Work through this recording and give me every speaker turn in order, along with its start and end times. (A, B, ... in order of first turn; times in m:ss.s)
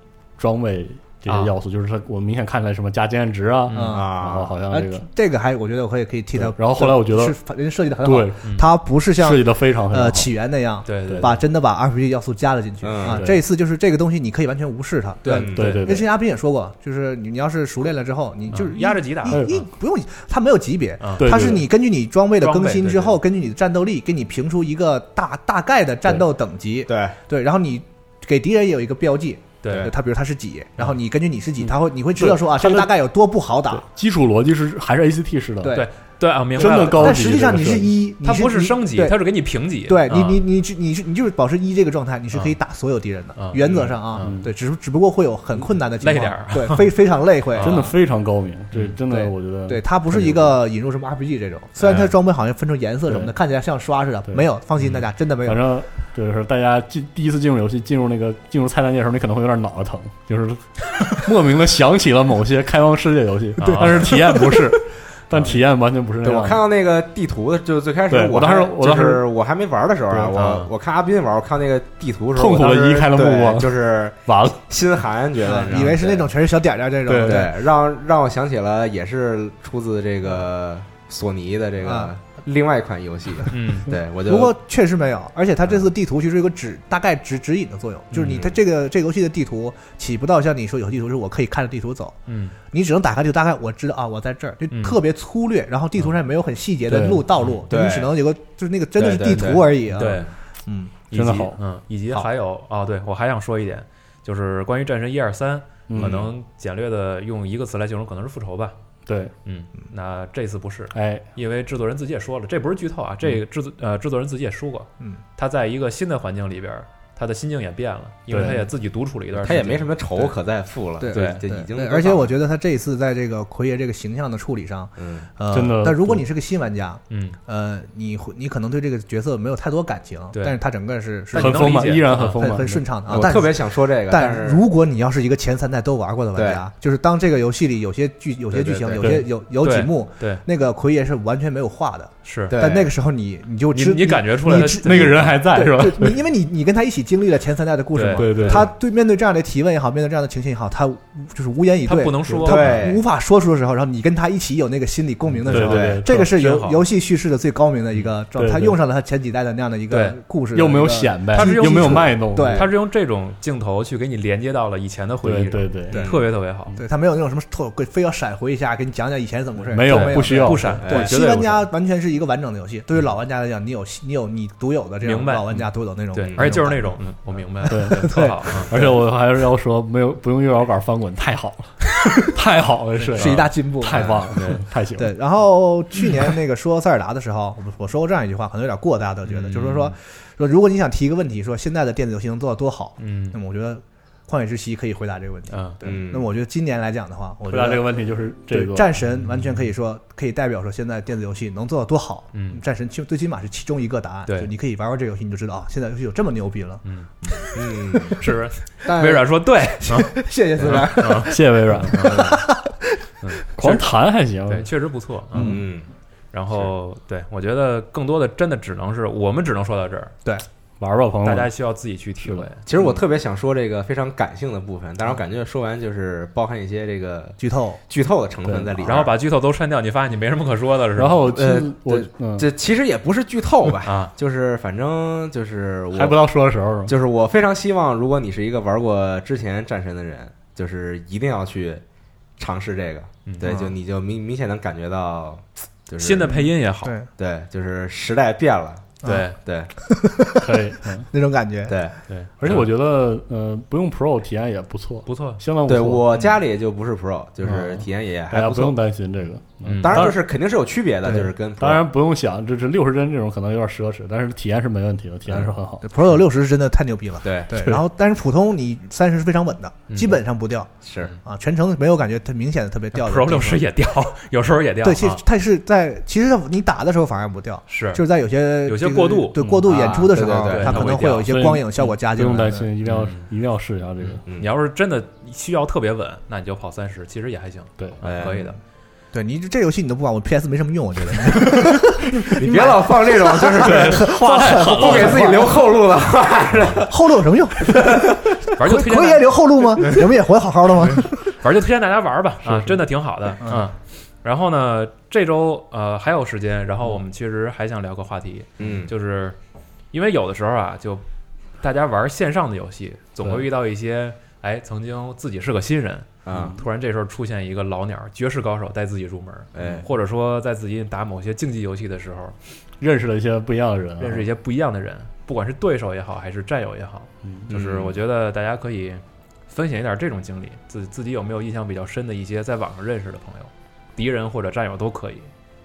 0:00.4-0:05.0 A
0:01.2-0:01.5 B
0:03.7-0:04.0 B
0:03.7-0:04.1 C
0:03.9-0:04.5 D
0:04.7-0:33.8 C
0:06.4-0:07.4 A
0:08.0-0:08.4 A
0:09.1-0:10.3 A
0:10.8-0:11.4 B
0:11.0-0:11.3 A
0:12.8-0:13.2 D
0:13.1-0:13.4 A
0:15.2-0:15.8 D
0:15.5-0:16.0 A
0:18.5-0:19.4 B
0:19.3-0:19.6 A
0:21.0-0:21.5 B
0:21.2-0:21.6 A
0:22.4-0:23.2 B
0:26.9-0:27.2 D
0:29.6-0:29.9 B
0:32.2-0:32.9 A
0:33.7-0:35.8 A
0:35.6-0:35.9 C
0:35.7-0:37.4 B
0:36.6-0:37.9 A
0:36.6-0:39.2 C
0:38.2-0:40.4 B
0:39.8-0:47.9 C
0:43.4-0:44.3 B
0:44.2-0:44.5 A
0:46.0-0:46.9 B
0:47.5-0:47.9 B
0:47.6-0:50.6 A
0:49.1-0:55.7 C
0:53.1-0:53.3 A
0:55.4-1:06.6 A
1:03.6-1:04.2 B
1:03.6-1:04.8 C
1:06.2-1:16.3 D
1:08.1-1:09.2 A
1:10.1-1:10.3 A
1:10.3-1:10.7 B
1:12.4-1:13.7 A
1:14.2-1:14.6 A
1:15.4-1:17.5 C
1:17.1-1:17.4 A
1:17.2-1:24.5 D
1:21.8-1:22.1 C
1:23.5-1:23.9 B
1:24.2-1:40.9 C
1:28.1-1:28.6 D
1:32.3-1:32.6 B
1:34.7-1:35.0 B
1:36.9-1:37.2 A
1:37.7-1:38.1 D
1:39.0-1:40.2 D
1:40.0-1:40.3 B
1:41.1-1:48.7 B
1:41.1-1:41.6 A
1:45.9-1:46.3 A
1:49.0-1:49.3 A
1:49.4-1:59.9 B
1:50.9-1:51.2 A
1:58.3-1:58.6 A
1:59.4-2:02.3 D
2:01.0-2:42.7 C
2:01.1-2:01.4 B
2:05.0-2:05.3 D
2:05.5-2:06.2 A
2:07.1-2:07.4 B
2:11.3-2:12.4 B
2:11.3-2:12.8 A
2:13.1-2:14.6 D
2:16.4-2:16.6 D
2:18.5-2:19.2 D
2:19.0-2:19.2 A
2:19.6-2:20.4 B
2:22.2-2:22.6 B
2:22.5-2:22.9 D
2:23.7-2:25.4 B
2:24.5-2:26.2 A
2:27.9-2:28.7 B
2:28.1-2:28.7 A
2:31.8-2:32.8 B
2:32.4-2:33.0 D
2:35.4-2:36.6 A
2:35.5-2:36.0 D
2:36.1-2:36.7 B
2:38.4-2:38.8 A
2:39.9-2:40.2 B
2:40.5-2:42.7 A
2:41.3-2:46.8 B
2:45.2-2:46.0 A
2:45.9-2:46.2 D
2:46.7-2:59.0 C
2:49.7-2:51.5 A
2:49.8-2:51.5 B
2:50.8-2:51.1 D
2:55.0-2:55.6 B
2:56.1-2:58.7 B
2:57.7-3:05.1 A
3:03.0-3:04.6 B
3:03.1-3:04.2 C
3:03.9-3:04.2 D
3:04.9-3:17.9 C
3:09.2-3:09.9 B
3:13.0-3:13.4 B
3:15.5-3:15.8 B
3:15.8-3:16.3 D
3:17.5-3:18.9 A
3:18.5-3:28.2 C
3:22.3-3:22.6 B
3:24.2-3:24.5 B
3:26.8-3:27.5 B
3:27.5-3:28.2 D
3:28.2-3:32.4 B
3:28.8-3:33.0 C
3:31.2-3:32.3 A
3:33.2-3:33.9 B
3:33.6-3:34.7 A
3:34.4-3:35.6 B
3:35.3-3:35.6 C
3:35.4-3:35.9 D
3:36.3-3:40.1 B
3:40.8-3:41.5 A
3:41.2-3:42.6 B
3:42.2-3:42.5 A
3:42.6-3:49.1 D
3:47.4-3:47.8 C
3:48.4-3:48.9 A
3:48.8-3:51.3 B
3:51.0-3:52.5 A
3:51.3-3:56.2 D
3:53.8-3:54.1 B
3:55.9-3:56.9 A
3:56.8-4:01.8 D
4:02.4-4:06.4 D
4:03.4-4:03.7 C
4:06.0-4:06.9 B
4:06.3-4:07.1 C
4:07.2-4:09.7 D
4:09.0-4:09.4 B
4:09.8-4:11.8 C
4:10.4-4:11.1 A
4:11.7-4:11.9 D
4:12.1-4:12.7 B
4:12.4-4:16.2 A
4:15.0-4:15.4 B
4:15.6-4:18.8 D
4:17.4-4:20.2 A
4:19.6-4:20.0 B
4:19.8-4:21.8 D
4:21.0-4:21.3 C
4:21.6-4:25.8 A
4:25.8-4:30.7 C
4:27.2-4:27.5 D
4:27.6-4:27.8 A
4:29.9-4:30.2 B
4:30.8-4:31.1 D
4:31.2-4:33.6 C
4:32.9-4:35.2 B
4:34.8-4:42.7 C
4:37.7-4:38.0 B
4:38.6-4:41.3 B
4:39.4-4:40.0 A
4:39.7-4:40.9 D
4:40.7-4:44.2 A
4:42.8-4:43.3 B
4:44.0-4:48.6 B
4:48.0-4:48.4 D
4:49.1-4:55.6 C
4:52.3-4:57.0 D
4:53.6-4:55.5 A
4:56.5-4:56.8 B
4:56.8-5:01.3 C
4:57.7-4:58.2 D
4:58.6-4:59.3 B
5:01.0-5:09.4 B
5:02.4-5:02.8 A
5:08.6-5:08.9 D
5:09.9-5:11.0 B
5:11.6-5:22.4 B
5:16.2-5:16.6 D
5:16.3-5:16.6 A
5:19.5-5:19.9 D
5:22.8-5:24.3 A
5:24.0-5:35.3 B
5:27.5-5:28.0 D